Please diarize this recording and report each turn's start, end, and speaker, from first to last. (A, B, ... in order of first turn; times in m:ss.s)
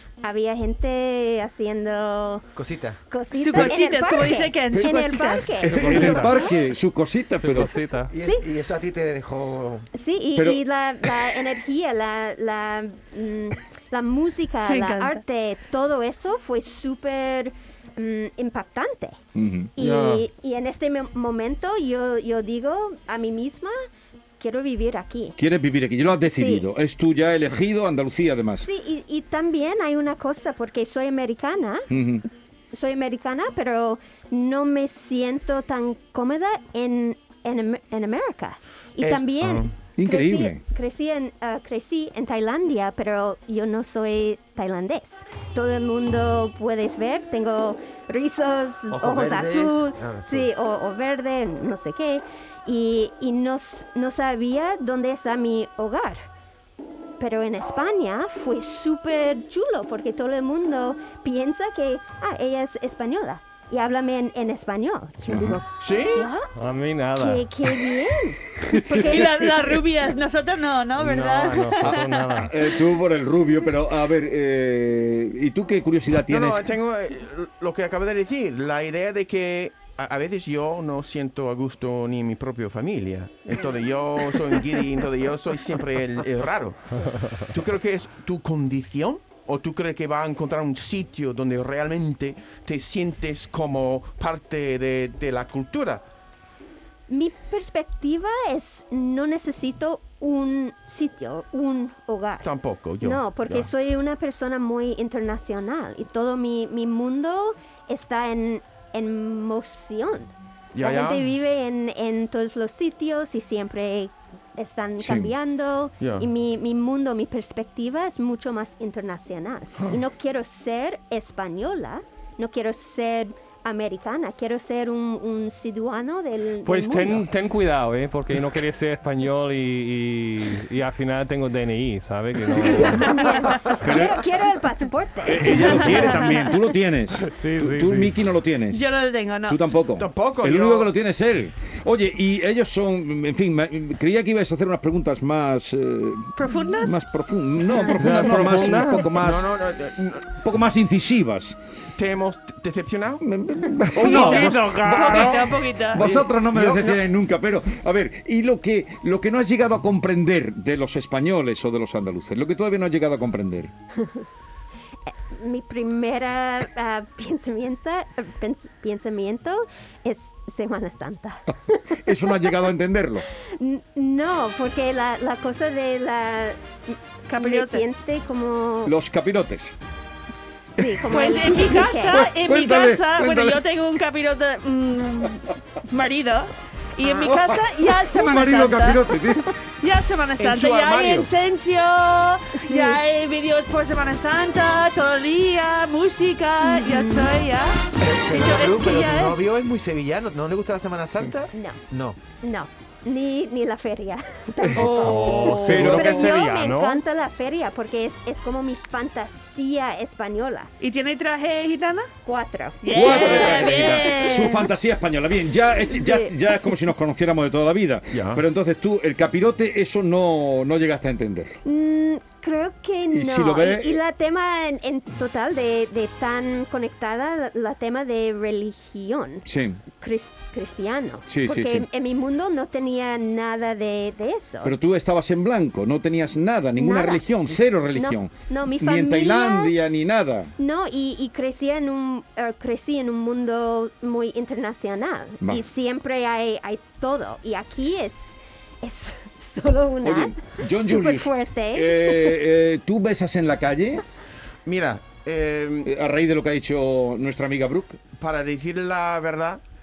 0:00.2-0:02.4 A
0:02.6-0:03.0 B
0:03.1-0:06.6 A
0:03.3-0:05.6 C
0:05.5-0:07.7 D
0:05.6-0:06.4 E
0:07.4-0:08.1 E
0:08.1-0:09.9 B
0:09.9-0:19.2 A
0:14.6-0:15.2 C
0:19.3-0:20.0 D
0:19.8-0:23.7 A
0:24.4-0:25.4 A
0:25.4-0:28.7 D
0:26.2-0:26.6 A
0:28.6-0:31.9 A
0:31.9-0:32.2 D
0:32.7-0:56.2 A
0:39.0-0:39.7 F
0:40.0-0:40.6 D
0:48.9-0:50.5 B
0:57.2-1:06.5 A
1:05.2-1:05.6 D
1:05.8-1:06.3 F
1:06.5-1:07.5 E
1:07.2-1:09.3 A
1:08.7-1:09.6 D
1:08.9-1:12.2 C
1:11.0-1:12.5 E
1:11.8-1:16.7 D
1:16.2-1:36.0 F
1:37.1-2:07.2 A
1:42.4-1:43.7 F
1:50.7-1:51.2 F
1:55.0-1:55.3 D
1:56.0-1:56.3 F
2:06.6-2:13.3 E
2:13.2-2:16.5 A
2:13.6-2:14.2 D
2:15.2-2:18.8 D
2:17.2-2:18.3 E
2:18.7-2:19.6 C
2:19.5-2:29.5 D
2:20.0-2:20.9 F
2:26.4-2:27.0 C
2:27.9-2:29.1 E
2:29.2-2:30.3 F
2:30.3-2:31.6 D
2:32.0-2:33.2 F
2:33.2-2:43.7 D
2:33.9-2:35.5 E
2:34.0-2:36.0 C
2:36.0-2:37.0 F
2:45.1-2:52.6 A
2:51.5-2:53.2 D
2:53.5-2:58.9 A
2:57.3-2:57.8 C
2:58.8-2:59.7 D
3:00.4-3:02.2 A
3:00.8-3:03.6 D
3:01.1-3:09.1 C
3:07.2-3:09.5 D
3:09.8-3:19.4 C
3:10.4-3:11.3 F
3:12.6-3:13.0 A
3:16.7-3:17.2 A
3:18.0-3:22.2 B
3:21.5-3:21.8 A
3:22.4-3:30.7 A
3:24.6-3:26.4 D
3:24.8-3:25.8 C
3:24.8-3:27.0 E
3:30.8-3:32.1 C
3:32.2-3:33.8 A
3:32.8-3:34.7 C
3:32.9-3:41.6 D
3:35.9-3:36.3 A
3:38.1-3:38.4 F
3:41.6-3:49.4 A
3:43.1-3:44.0 D
3:49.4-3:49.8 D
3:50.0-3:54.7 A
3:51.3-3:51.8 D
3:54.6-4:00.5 D
3:56.8-3:57.2 A
3:57.9-3:59.7 A
4:00.6-4:12.4 A
4:10.0-4:14.0 D
4:14.6-4:15.9 F
4:15.8-4:18.0 D
4:18.2-4:19.6 F